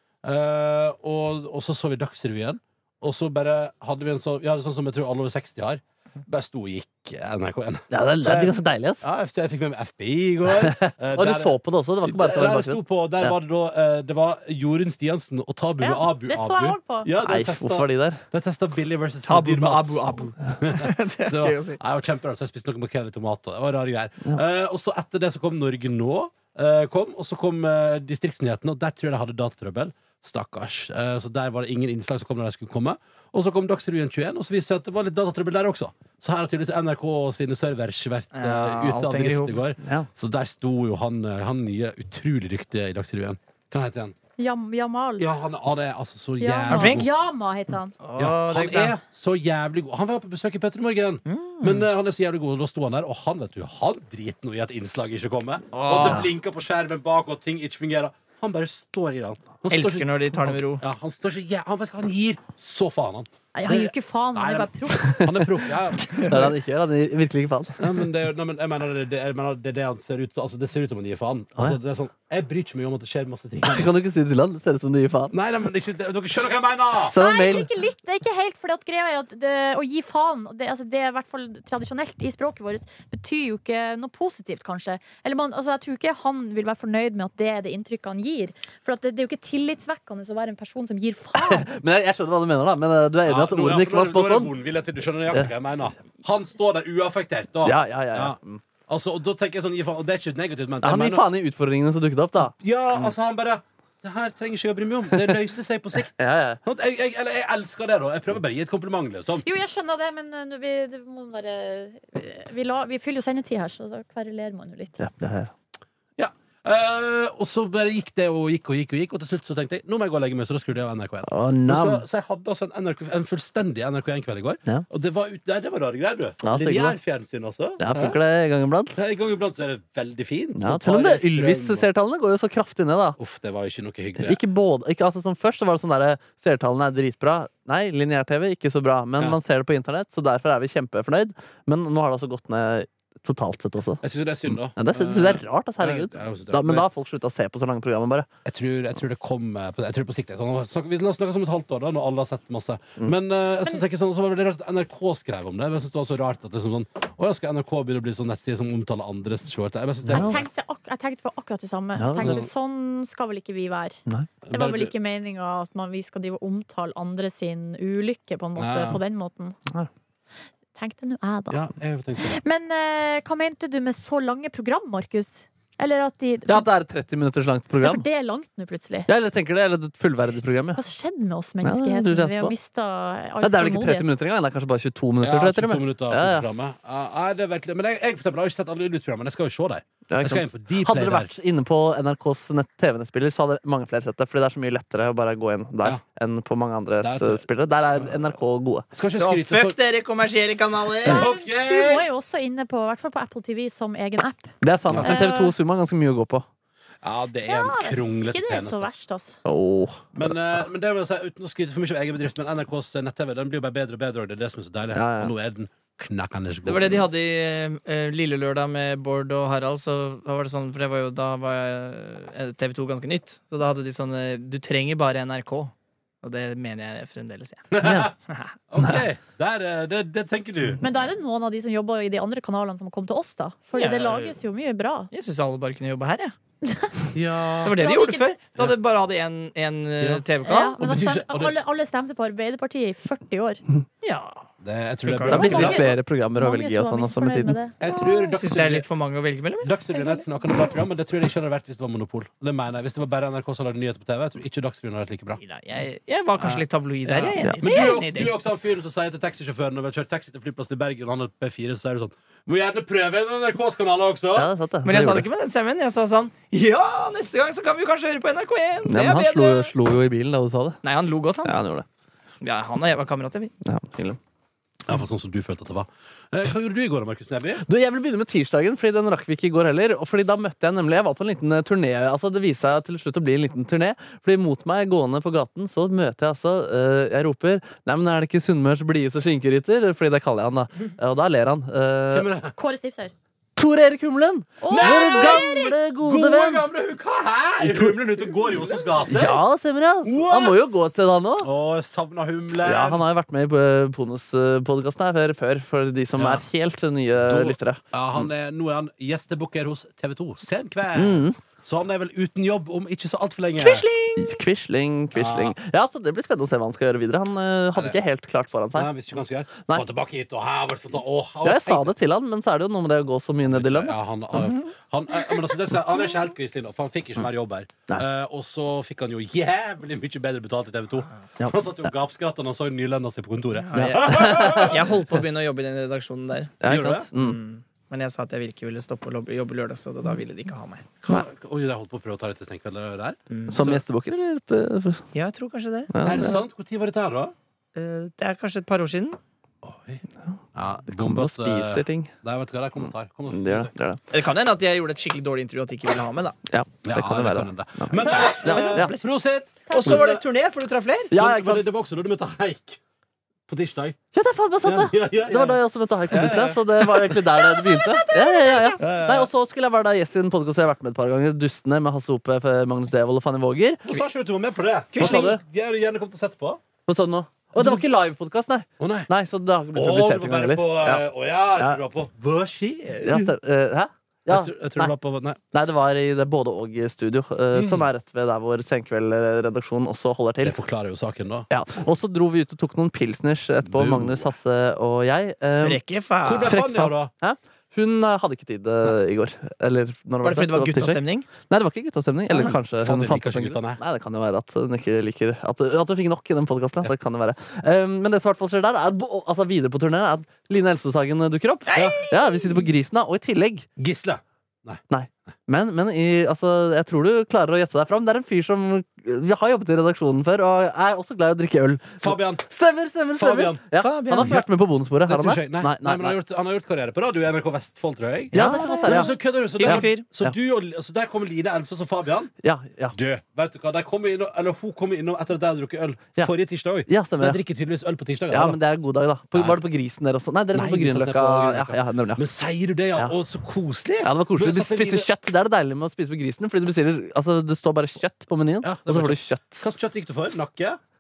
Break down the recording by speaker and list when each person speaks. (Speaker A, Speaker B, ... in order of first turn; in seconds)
Speaker A: 0.2-44.1, 45.2-47.1, 48.1-66.5, 67.8-73.9, 75.3-77.2, 93.2-101.3, 102.6-109.4, 116.2-128.2, 128.9-131.9, 133.2-134.4, 144.0-146.9, 148.4-160.4, 162.2-162.5, 164.4-164.9, 168.6-169.0, 171.5-172.4, 185.2-191.3, 197.0-198.3, 198.9-199.8, 201.0-202.1, 204.9-205.1, 207.0-208.9, 210.1-217.1, 227.7-228.1, 228.7-230.8, 237.1-237.7, 240.0-240.2, 240.8-241.5, 244.6-245.8, 247.8-248.8, 249.6-255.4, 256.4-264.5, 274.9-277.6, 292.1-292.5, 294.7-299.4, 300.0-300.7, 301.4-303.0, 306.1-306.4, 307.2-313.9, 315.1-315.6, 317.7-318.0, 318.7-321.9, 323.5-335.0, 336.6-337.1, 341.0-343.8, 346.0-347.3, 349.6-350.0, 350.5-353.7, 356.8-360.2, 361.1-362.8, 363.5-364.0, 364.6-367.4, 368.8-369.3, 373.9-376.6, 378.8-379.1, 379.7-383.3, 384.3-385.4, 387.5-387.9, 390.4-391.5, 393.6-394.3, 396.2-397.1, 402.7-403.8, 411.7-412.0, 413.8-414.8, 422.0-422.5, 423.1-423.6, 424.1-424.5, 425.1-432.3, 432.9-438.6, 439.3-439.6, 440.5-445.1, 448.6-450.8
Speaker B: 7.9-9.0, 10.6-13.3, 17.2-18.2, 39.8-40.1, 66.2-68.0, 73.6-75.3, 77.1-77.7, 91.3-94.5, 97.6-98.6, 100.8-103.1, 106.2-106.6, 115.0-115.5, 121.2-122.0, 126.4-127.0, 127.8-129.0, 130.6-133.2, 134.2-144.0, 144.7-148.3, 160.1-160.4, 162.0-162.4, 176.5-178.1, 179.1-180.8, 181.6-182.5, 183.4-186.5, 190.1-198.9, 204.6-206.4, 209.4-210.1, 214.9-215.3, 227.8-228.1, 245.3-247.6, 264.3-265.3, 268.9-270.8, 271.4-271.9, 273.6-274.2, 277.6-292.3, 293.6-296.6, 297.6-297.9, 299.1-301.5, 302.6-307.8, 310.9-311.4, 314.2-318.9, 321.4-324.6, 333.7-334.8, 336.6-337.4, 343.5-345.0, 345.9-346.4, 350.9-352.1, 353.3-354.0, 356.5-358.9, 361.1-361.6, 364.1-373.8, 375.0-375.4, 376.9-381.0, 383.0-384.9, 385.5-390.6, 391.5-395.8, 396.4-413.7, 414.9-426.2, 428.3-430.3, 432.4-433.0, 436.9-437.4, 438.3-442.2, 444.0-449.6
Speaker C: 15.8-17.1, 44.4-45.3, 46.4-47.9, 63.5-65.3, 77.1-91.7, 109.4-115.0, 160.1-164.0, 164.5-169.6, 170.7-176.7, 177.8-179.1, 180.7-184.1, 201.1-205.5, 207.4-209.4, 230.8-235.1, 236.6-236.9, 237.6-238.3, 240.4-243.6, 245.3-248.3, 249.9-250.2, 292.6-293.1, 294.6-295.7, 368.3-368.6, 428.4-429.0
Speaker D: 19.2-21.8, 38.3-39.6, 46.7-47.0, 48.0-49.0, 51.3-51.9, 55.7-56.3, 59.7-60.8, 66.1-66.4, 199.1-201.3, 216.6-227.7, 228.3-228.5, 233.7-234.4, 235.1-236.3, 237.6-240.8, 244.0-244.4, 245.0-245.8, 248.3-249.8, 255.4-258.3, 264.8-269.7, 270.8-271.5, 272.4-273.5, 313.6-314.4, 333.6-336.6, 337.1-340.9, 343.3-343.8, 345.1-345.9, 347.7-349.2, 354.1-356.4, 358.0-359.1, 359.7-361.1, 367.7-368.6, 374.9-375.4, 395.5-396.6, 400.2-401.3, 402.3-402.6, 411.7-412.6, 423.8-424.4, 428.4-429.1, 429.6-430.0